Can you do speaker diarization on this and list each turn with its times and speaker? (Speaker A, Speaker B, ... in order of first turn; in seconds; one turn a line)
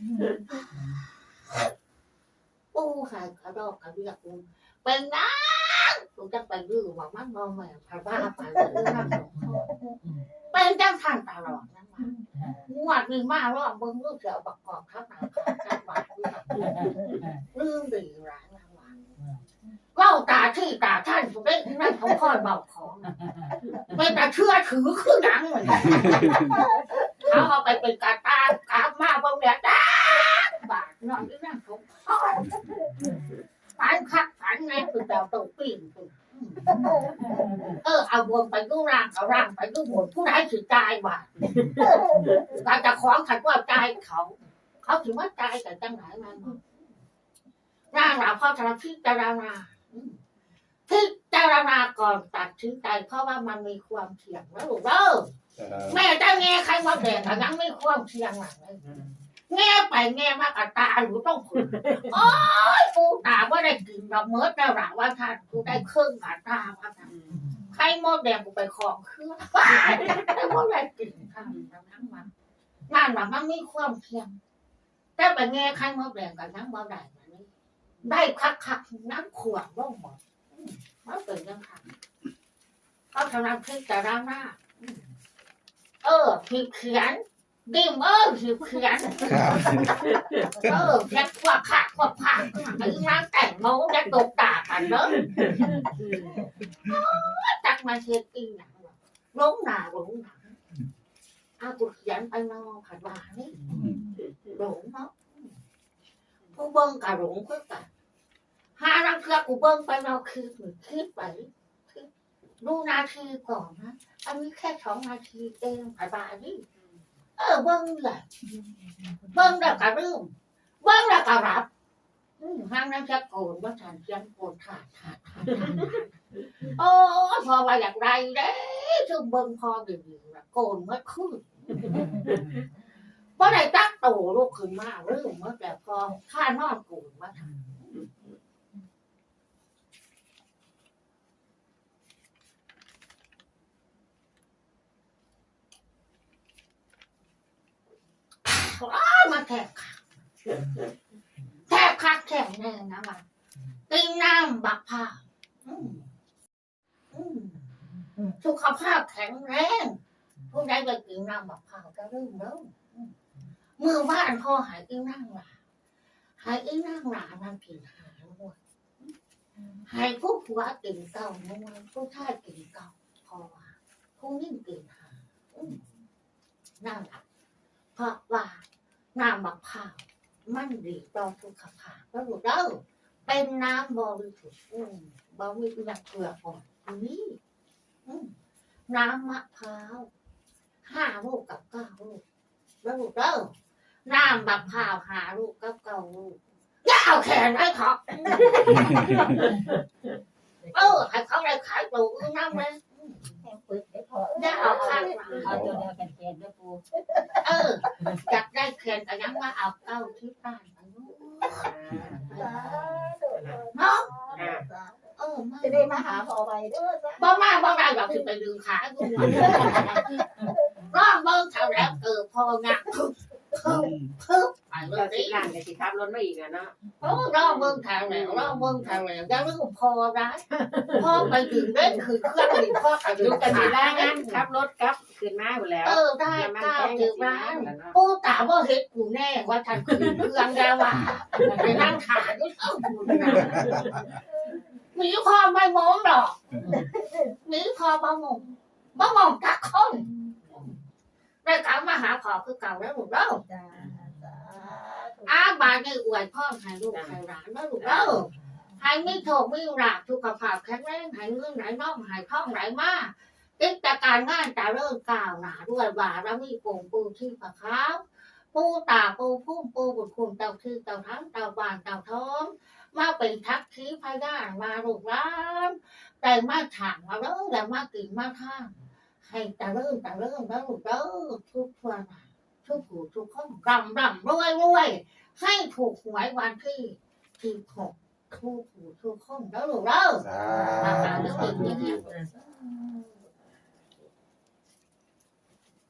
Speaker A: 0.7-1.0
Speaker B: 2.7-9.5
Speaker A: 9.1-10.3
Speaker C: 9.4-10.0
Speaker B: 10.5-16.7
Speaker C: 12.1-12.6
Speaker A: 16.6-17.4
Speaker B: 17.5-18.9
Speaker B: 19.9-23.1
Speaker A: 23.2-23.6
Speaker B: 23.9-26.6
Speaker D: 25.7-26.4
Speaker C: 26.4-27.3
Speaker B: 27.2-32.6
Speaker C: 32.5-33.1
Speaker E: 33.0-33.4
Speaker B: 33.8-36.8
Speaker C: 36.7-37.2
Speaker B: 37.8-41.3
Speaker E: 41.5-42.3
Speaker C: 41.8-42.4
Speaker B: 42.5-46.7
Speaker B: 47.9-50.2
Speaker B: 50.9-55.3
Speaker D: 55.6-56.0
Speaker B: 55.9-58.8
Speaker E: 58.8-59.2
Speaker B: 59.5-67.1
Speaker E: 67.0-67.4
Speaker B: 67.7-72.3
Speaker B: 72.9-74.4
Speaker B: 75.2-77.5
Speaker B: 78.0-81.9
Speaker B: 83.1-85.0
Speaker B: 86.0-89.7
Speaker D: 89.2-90.0
Speaker E: 90.0-90.5
Speaker B: 90.6-95.2
Speaker E: 95.0-96.4
Speaker B: 96.7-100.5
Speaker B: 101.6-103.6
Speaker D: 103.7-104.0
Speaker E: 103.8-104.5
Speaker B: 104.5-105.5
Speaker B: 106.5-107.9
Speaker B: 108.8-112.1
Speaker B: 112.6-116.6
Speaker B: 117.4-118.2
Speaker A: 119.0-119.3
Speaker B: 119.3-121.7
Speaker B: 122.4-126.0
Speaker E: 125.6-125.9
Speaker B: 126.6-132.1
Speaker E: 132.0-132.4
Speaker B: 133.4-137.5
Speaker B: 148.4-150.0
Speaker B: 151.7-153.2
Speaker B: 153.9-156.1
Speaker B: 157.1-157.7
Speaker B: 158.4-160.0
Speaker B: 160.5-163.1
Speaker B: 163.8-165.5
Speaker B: 166.4-168.6
Speaker B: 169.9-175.8
Speaker B: 176.8-177.2
Speaker B: 177.9-178.6
Speaker B: 179.1-187.4
Speaker B: 188.0-188.3
Speaker B: 188.9-190.1
Speaker B: 190.8-192.2
Speaker B: 192.8-193.5
Speaker B: 194.1-199.1
Speaker E: 198.3-199.8
Speaker D: 198.9-199.2
Speaker A: 200.7-201.0
Speaker B: 200.7-203.3
Speaker C: 203.4-205.5
Speaker B: 204.3-205.6
Speaker E: 204.6-205.6
Speaker D: 205.4-205.8
Speaker A: 205.4-206.8
Speaker C: 207.0-207.7
Speaker B: 207.4-212.6
Speaker E: 211.4-212.6
Speaker C: 212.3-215.1
Speaker E: 213.3-213.6
Speaker B: 213.7-214.1
Speaker E: 214.3-214.7
Speaker B: 215.2-216.3
Speaker C: 215.6-218.3
Speaker B: 217.2-220.3
Speaker C: 219.2-219.9
Speaker D: 219.2-219.8
Speaker B: 220.8-225.5
Speaker D: 223.6-224.1
Speaker E: 224.9-229.0
Speaker B: 227.0-230.4
Speaker E: 230.5-231.5
Speaker B: 230.9-234.4
Speaker E: 233.2-237.9
Speaker B: 235.8-243.8
Speaker D: 239.9-240.2
Speaker E: 241.4-241.8
Speaker E: 243.4-244.0
Speaker B: 244.9-246.4
Speaker C: 246.8-247.3
Speaker B: 247.4-250.7
Speaker B: 251.4-253.4
Speaker C: 253.3-255.7
Speaker A: 254.0-254.4
Speaker B: 255.2-290.3
Speaker E: 257.8-258.3
Speaker D: 290.2-292.0
Speaker B: 290.8-293.1
Speaker E: 290.8-292.1
Speaker A: 291.0-291.6